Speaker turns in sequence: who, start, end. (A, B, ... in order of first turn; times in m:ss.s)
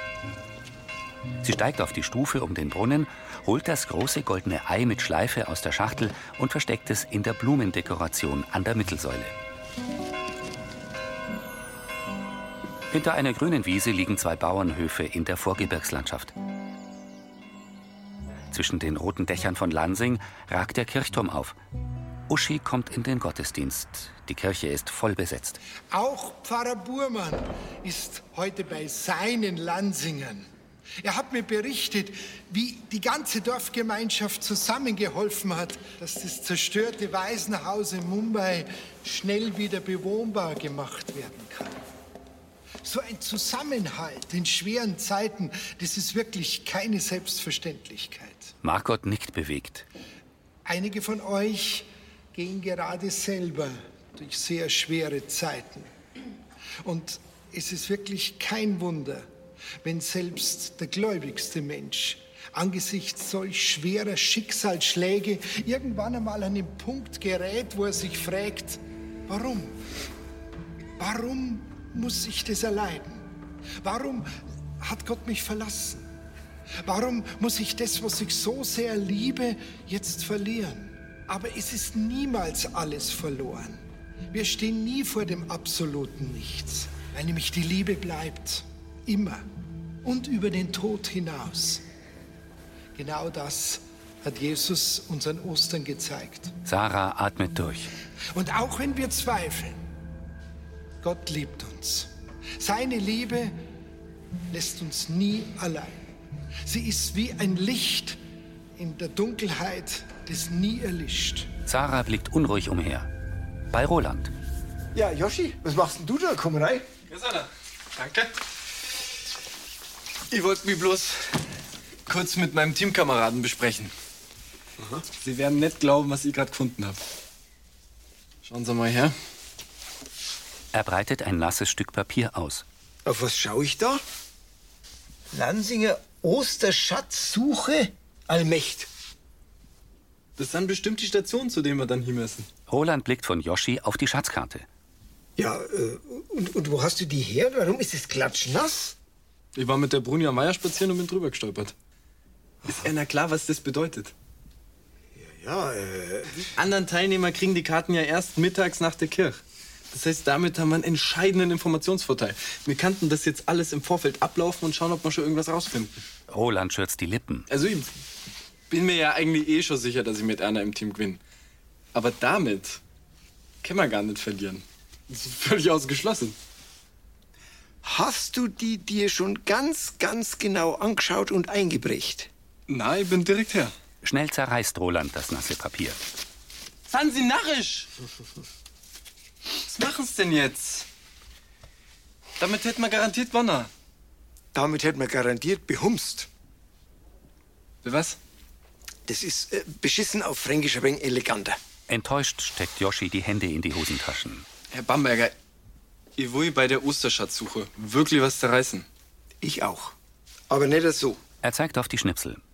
0:01.4-0:09.3 A
0:12.9-0:16.3 A
0:18.5-0:21.6 A
0:22.3-0:25.6 A
0:25.9-0:30.5 B
0:31.0-0:41.8 B
0:42.8-0:48.5 B
0:48.6-0:49.9 A
0:50.7-0:55.9 B
0:56.8-0:59.3 B
0:59.8-1:09.8 B
1:11.0-1:13.3 B
1:13.8-1:16.1 B
1:16.8-1:29.4 B
1:30.0-1:31.8 B
1:33.0-1:36.5 B
1:36.7-1:37.9 A
1:38.3-1:39.8 B
1:41.0-1:43.6 B
1:44.5-1:46.0 B
1:46.7-1:48.2 B
1:48.8-1:51.5 B
1:51.7-1:53.1 A
1:53.7-1:54.3 A
1:55.0-1:56.9 C
1:57.1-1:58.3 D
2:00.3-2:01.2 D
2:02.1-2:03.9 D
2:05.2-2:07.0 D
2:08.4-2:09.1 D
2:10.7-2:12.6 A
2:13.0-2:14.0 C
2:15.3-2:18.9 C
2:20.4-2:22.5 D
2:22.7-2:24.7 A
2:25.4-2:28.9 C
2:29.6-2:31.7 D
2:32.6-2:34.1 D
2:36.6-2:39.4 D
2:39.9-2:45.9 D
2:46.3-2:47.5 A
2:47.5-2:47.9 D
2:48.7-2:51.2 D
2:51.9-2:52.8 D
2:53.6-2:56.4 D
2:57.8-3:02.3 C
3:02.7-3:03.7 D
3:04.0-3:06.0 A
3:06.9-3:07.9 D
3:09.6-3:10.9 D
3:12.4-3:13.7 D
3:14.5-3:16.3 C
3:17.8-3:18.2 D
3:19.1-3:21.6 C
3:21.9-3:24.5 A
3:24.7-3:25.4 D
3:26.2-3:28.9 D
3:29.4-3:29.9 C
3:30.5-3:31.2 C
3:31.4-3:32.4 A